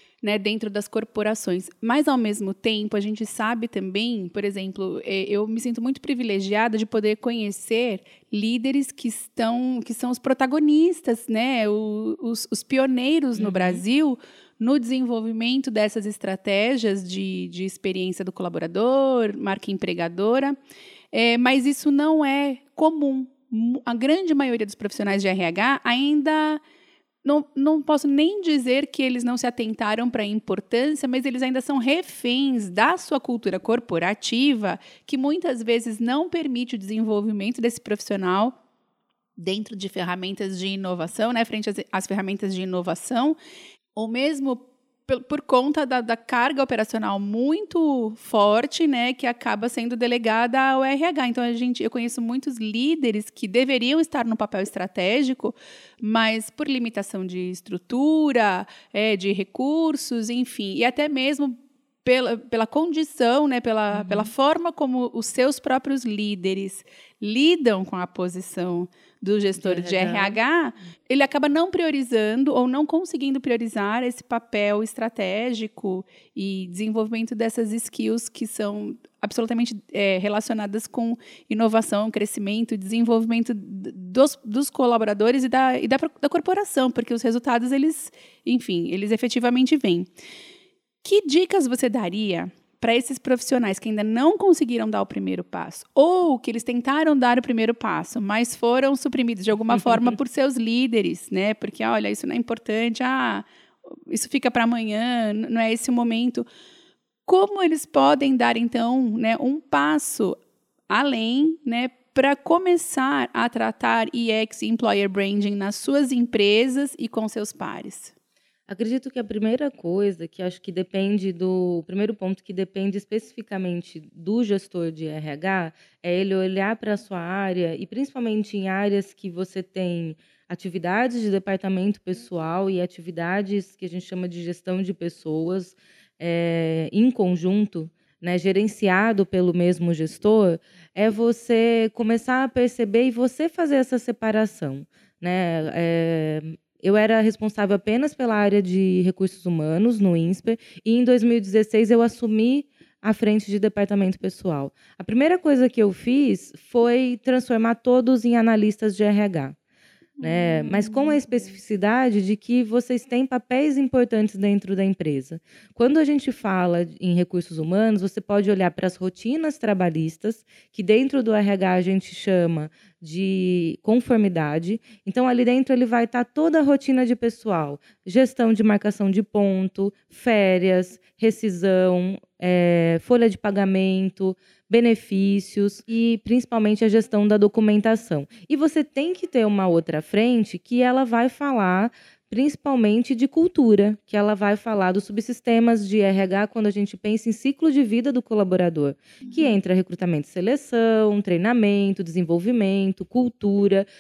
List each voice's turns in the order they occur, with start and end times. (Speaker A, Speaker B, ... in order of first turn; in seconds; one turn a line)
Speaker A: 0.2-20.6
Speaker B: 13.4-13.8
Speaker A: 21.1-26.6
Speaker A: 27.2-38.6
Speaker A: 39.4-43.4
Speaker A: 44.0-90.1
Speaker B: 63.9-64.3
Speaker B: 69.6-70.4
Speaker A: 91.0-106.5
Speaker B: 99.7-100.1
Speaker A: 107.3-110.4
Speaker A: 110.9-118.1
Speaker B: 118.7-159.6
Speaker A: 160.2-161.6
Speaker B: 160.2-203.9
Speaker A: 199.2-199.6